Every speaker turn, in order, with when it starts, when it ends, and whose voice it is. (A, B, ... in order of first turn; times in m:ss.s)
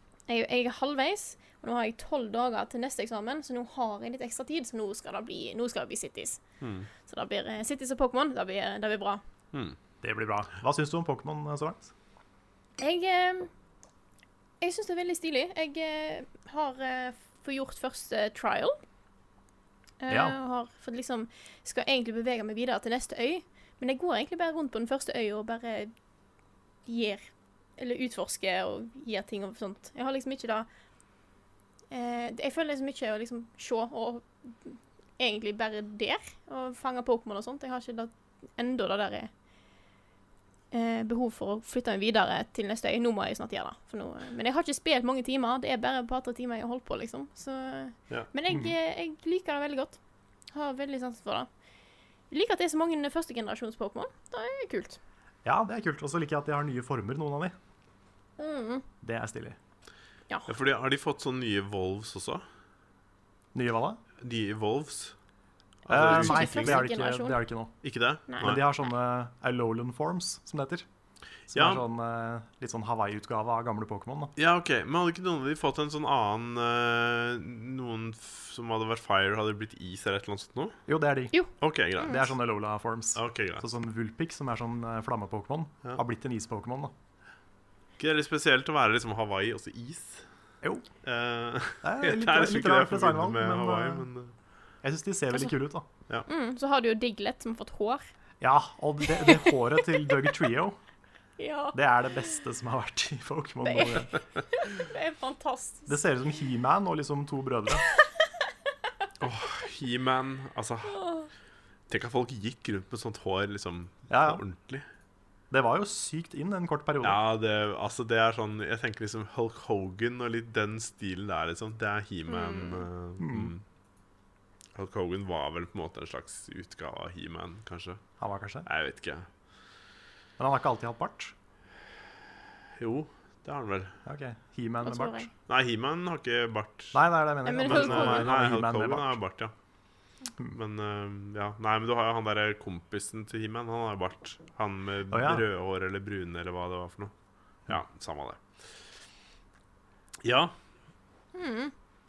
0:00.3-0:06.4 A
0:06.6-0:06.9 B
0:07.0-0:09.2 A
0:10.0-0:11.9 C
0:12.8-0:13.5 A
0:14.6-0:18.8 A
0:20.0-0:25.9 A
0:20.1-0:20.4 C
0:26.9-0:27.2 A
0:27.8-0:30.7 A
0:31.9-0:39.3 A
0:40.7-0:50.0 A
0:50.5-0:51.5 A
0:52.3-0:55.0 A
0:55.4-0:57.6 C
0:58.4-0:58.8 A
0:59.0-0:59.6 C
1:00.5-1:02.4 B
1:03.5-1:04.0 C
1:04.2-1:05.2 B
1:05.8-1:06.8 B
1:05.9-1:07.7 C
1:06.0-1:07.4 A
1:07.8-1:08.6 B
1:08.4-1:10.9 C
1:11.5-1:14.3 C
1:11.5-1:11.8 B
1:14.4-1:20.8 B
1:20.9-1:21.3 C
1:21.3-1:22.3 A
1:21.6-1:22.3 B
1:22.0-1:26.9 C
1:23.2-1:23.6 B
1:28.0-1:30.3 B
1:31.0-1:34.3 B
1:31.8-1:34.1 C
1:34.8-1:35.9 C
1:36.3-1:38.0 A
1:38.4-1:40.8 C
1:39.1-1:39.6 A
1:41.4-1:41.8 A
1:41.7-1:44.2 C
1:43.6-1:46.0 A
1:45.9-1:47.8 C
1:49.2-1:51.1 B
1:50.9-1:51.3 A
1:51.9-1:54.9 B
1:54.1-1:54.4 C
1:55.5-1:57.2 C
1:57.0-2:03.6 B
2:02.3-2:02.9 A
2:03.2-2:03.5 C
2:04.8-2:08.0 B
2:08.2-2:08.7 C
2:08.7-2:09.3 B
2:10.4-2:11.4 C
2:12.8-2:14.0 B
2:14.1-2:15.3 C
2:14.8-2:15.3 A
2:15.5-2:17.0 B
2:16.9-2:19.2 C
2:17.4-2:18.3 A
2:17.6-2:19.5 B
2:20.5-2:27.1 B
2:25.1-2:25.4 C
2:27.7-2:28.4 B
2:30.2-2:30.5 B
2:31.3-2:31.7 A